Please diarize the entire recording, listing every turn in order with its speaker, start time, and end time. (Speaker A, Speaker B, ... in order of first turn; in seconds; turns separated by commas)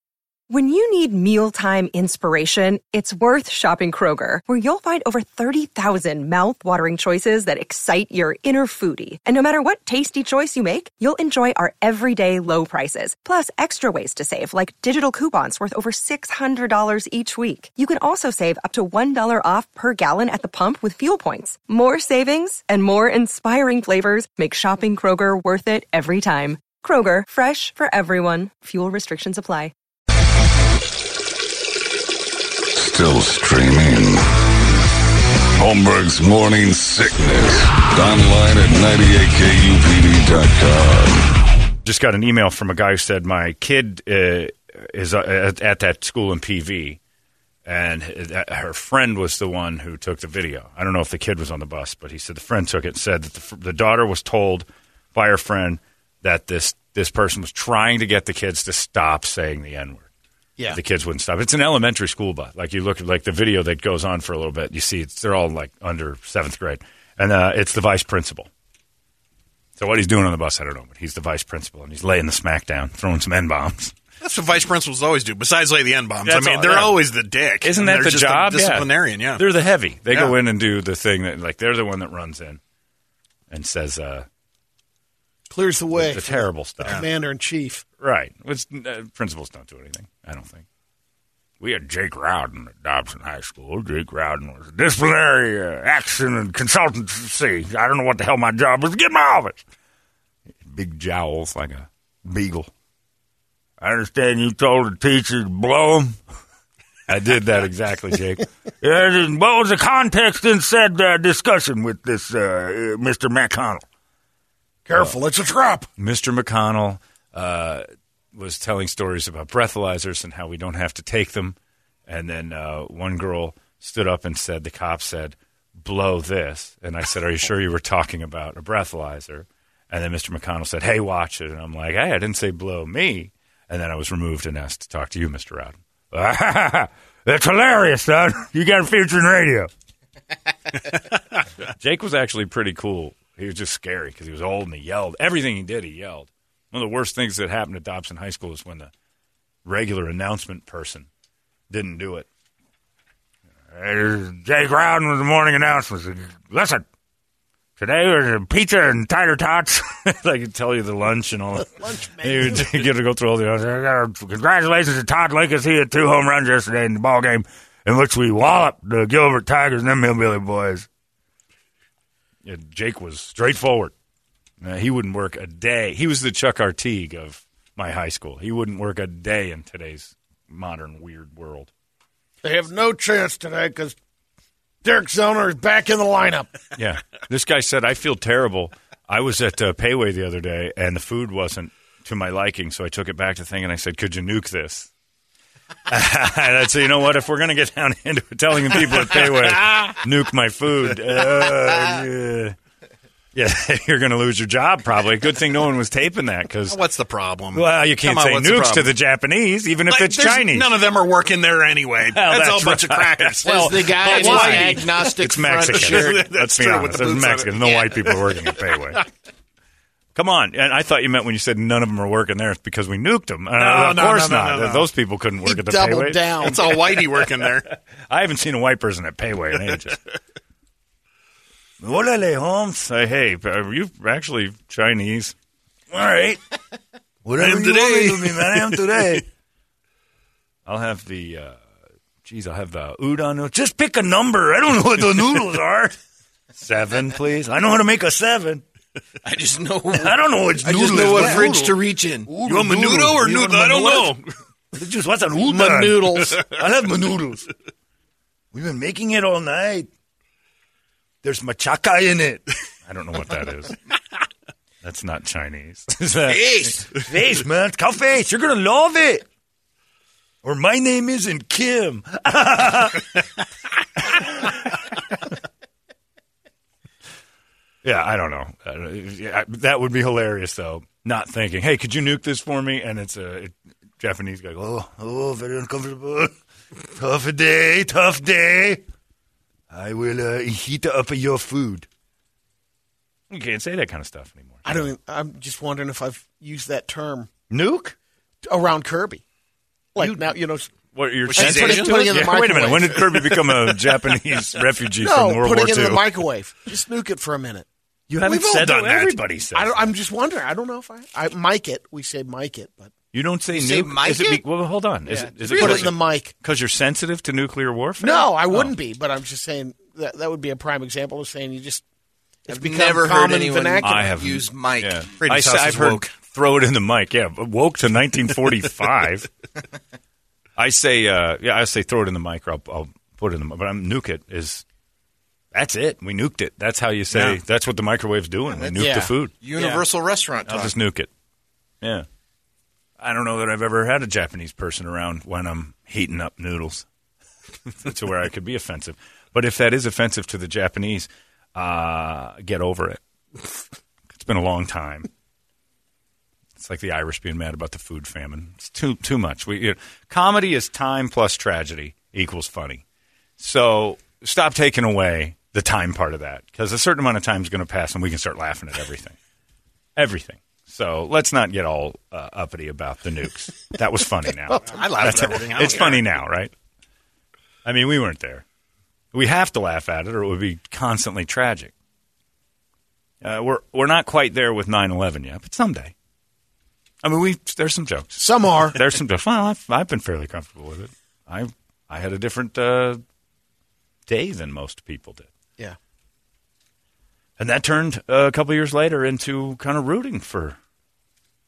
Speaker A: 0.5-29.7, Speaker B: 32.8-34.4, Speaker B: 35.6-41.4, Speaker C: 41.8-47.0, Speaker C: 47.6-60.1, Speaker C: 60.7-68.5, Speaker C: 69.8-74.0, Speaker D: 74.2-79.4, Speaker C: 76.2-77.0, Speaker C: 77.6-82.6, Speaker C: 83.5-84.3, Speaker E: 85.5-87.8, Speaker C: 85.9-87.0, Speaker C: 88.0-90.7, Speaker C: 91.6-99.6, Speaker C: 100.6-102.7, Speaker C: 103.8-106.2, Speaker C: 107.1-113.8, Speaker E: 114.9-115.9, Speaker C: 116.0-117.8, Speaker C: 118.3-121.5, Speaker C: 122.1-139.7, Speaker C: 141.7-148.9, Speaker C: 149.6-151.1, Speaker C: 151.7-152.3, Speaker C: 153.7-156.8, Speaker C: 157.8-170.9, Speaker E: 161.6-162.8, Speaker C: 172.4-173.9, Speaker C: 174.6-181.7, Speaker E: 182.4-183.9, Speaker E: 184.8-186.6, Speaker C: 186.8-194.9, Speaker C: 195.9-202.6, Speaker C: 203.3-206.8, Speaker D: 206.7-208.9, Speaker C: 207.5-210.7, Speaker D: 209.9-218.2, Speaker C: 212.0-219.0, Speaker F: 213.4-216.2, Speaker E: 214.2-214.6, Speaker C: 220.1-230.0, Speaker D: 223.6-224.8, Speaker E: 225.4-226.8, Speaker D: 226.4-227.7, Speaker C: 231.8-235.3, Speaker C: 235.9-236.4, Speaker C: 237.2-239.3, Speaker D: 237.4-239.2, Speaker C: 240.7-241.6, Speaker C: 242.2-246.0, Speaker C: 246.5-248.6, Speaker F: 249.2-252.3, Speaker C: 249.9-254.2, Speaker E: 251.1-251.4, Speaker D: 252.3-254.3, Speaker C: 254.7-257.5, Speaker E: 255.4-256.4, Speaker C: 258.5-259.9, Speaker C: 261.2-263.8, Speaker C: 264.8-269.2, Speaker F: 266.2-266.9, Speaker C: 270.4-273.3, Speaker C: 274.0-274.7, Speaker C: 277.8-288.8, Speaker C: 289.7-291.9, Speaker C: 293.3-294.9, Speaker E: 294.6-297.3, Speaker C: 297.5-297.9, Speaker E: 298.4-299.2, Speaker E: 299.9-300.7, Speaker C: 300.0-300.3, Speaker C: 300.9-306.1, Speaker D: 301.3-301.9, Speaker F: 301.3-302.3, Speaker E: 301.4-303.4, Speaker E: 305.0-307.7, Speaker C: 308.1-309.9, Speaker E: 308.2-312.9, Speaker C: 313.1-318.7, Speaker F: 313.5-314.4, Speaker E: 315.1-316.3, Speaker F: 315.4-315.9, Speaker E: 318.0-321.8, Speaker E: 322.4-324.1, Speaker F: 322.5-325.0, Speaker C: 323.8-329.3, Speaker D: 325.2-326.1, Speaker C: 330.6-334.6, Speaker C: 335.5-339.8, Speaker F: 338.5-340.7, Speaker E: 338.8-339.1, Speaker C: 340.4-341.1, Speaker C: 343.0-346.9, Speaker C: 347.7-353.0, Speaker C: 354.1-355.1, Speaker C: 356.6-362.8, Speaker C: 363.4-369.1, Speaker C: 369.9-376.5, Speaker D: 374.5-376.1, Speaker C: 377.6-378.4, Speaker C: 379.1-381.7, Speaker C: 383.2-385.9, Speaker C: 387.0-393.0, Speaker E: 388.2-388.8, Speaker C: 394.1-395.3, Speaker C: 397.4-400.6